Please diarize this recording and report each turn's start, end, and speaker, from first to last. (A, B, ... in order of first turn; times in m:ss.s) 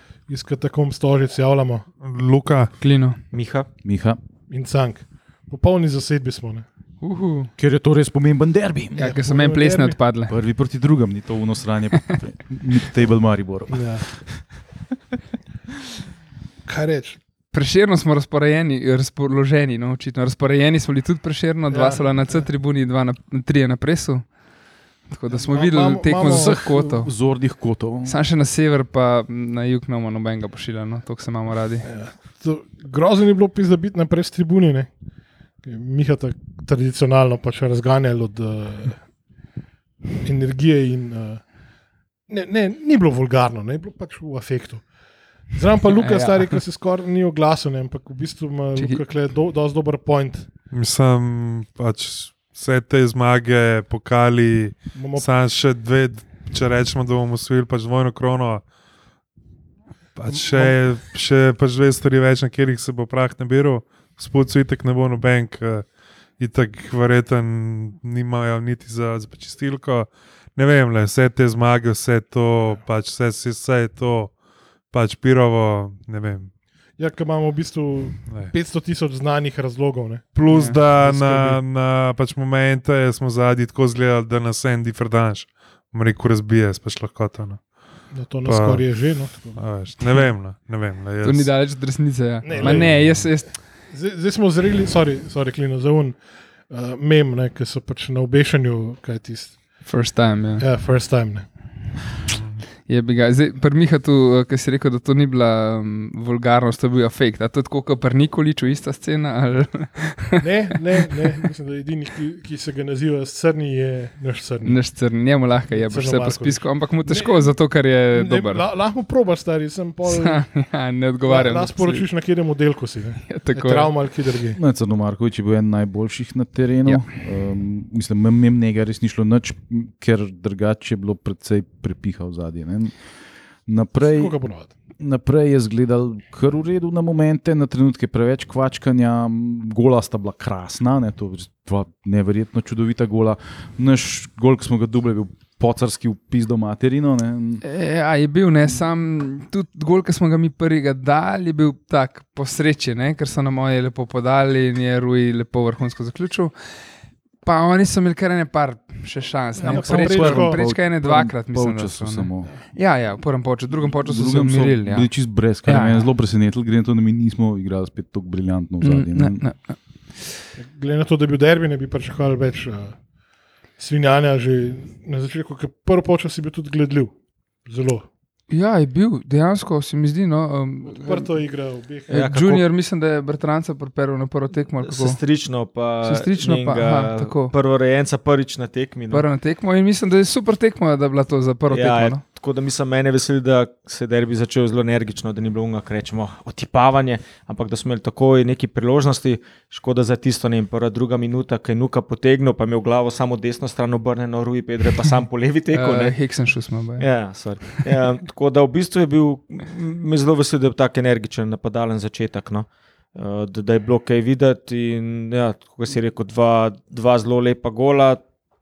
0:00.3-0:01.9 A
0:02.0-0:02.7 B
0:02.8-0:03.2 C
0:03.3-0:03.7 D
0:03.8-0:04.2 E
0:04.5-0:06.6 A
0:07.0-0:07.5 C
0:07.6-0:09.2 E
0:09.0-0:10.4 C
0:09.0-0:10.0 A
0:10.3-0:14.4 E
0:13.7-0:14.0 A
0:16.6-0:17.2 A
0:17.5-0:24.3 C
0:21.7-0:22.4 A
0:25.1-0:27.1 C
0:25.3-0:26.6 A
0:26.2-0:28.2 E
0:28.0-0:31.9 C
0:31.8-0:34.9 A
0:35.6-0:39.0 A
0:40.2-0:41.4 A
0:42.3-0:44.8 A
0:45.5-0:50.5 A
0:46.0-0:46.5 C
0:50.7-0:58.6 B
0:54.9-0:55.3 A
1:00.2-1:14.4 B
1:00.3-1:00.7 A
1:14.9-1:16.5 B
1:17.0-1:21.6 A
1:18.2-1:18.5 B
1:20.3-1:27.7 B
1:20.5-1:20.8 C
1:28.1-1:29.6 A
1:28.4-1:31.6 B
1:31.2-1:33.5 C
1:32.4-1:39.8 A
1:32.5-1:33.3 B
1:39.8-1:40.7 C
1:40.6-1:41.5 A
1:42.2-1:42.6 B
1:42.8-1:50.4 C
1:50.4-1:54.8 A
1:54.6-1:58.6 C
1:55.7-1:57.6 A
1:58.1-2:00.5 A
2:00.0-2:02.1 C
2:01.2-2:04.6 A
2:03.2-2:03.9 C
2:04.5-2:13.0 E
2:13.6-2:14.3 E
2:14.0-2:14.7 A
2:15.0-2:27.6 E
2:27.6-2:36.5 C
2:37.4-2:45.1 C
2:39.6-2:40.6 A
2:39.6-2:42.5 E
2:43.8-2:49.4 E
2:45.6-2:46.1 C
2:48.8-2:49.8 C
2:50.6-2:53.0 A
2:53.8-2:57.1 A
2:57.6-2:58.0 A
2:58.5-3:01.4 C
3:00.9-3:02.1 A
3:02.1-3:02.6 D
3:02.1-3:05.2 C
3:04.8-3:09.3 D
3:06.0-3:07.5 C
3:09.1-3:12.2 C
3:11.7-3:26.2 D
3:25.7-3:27.1 C
3:27.0-3:38.2 D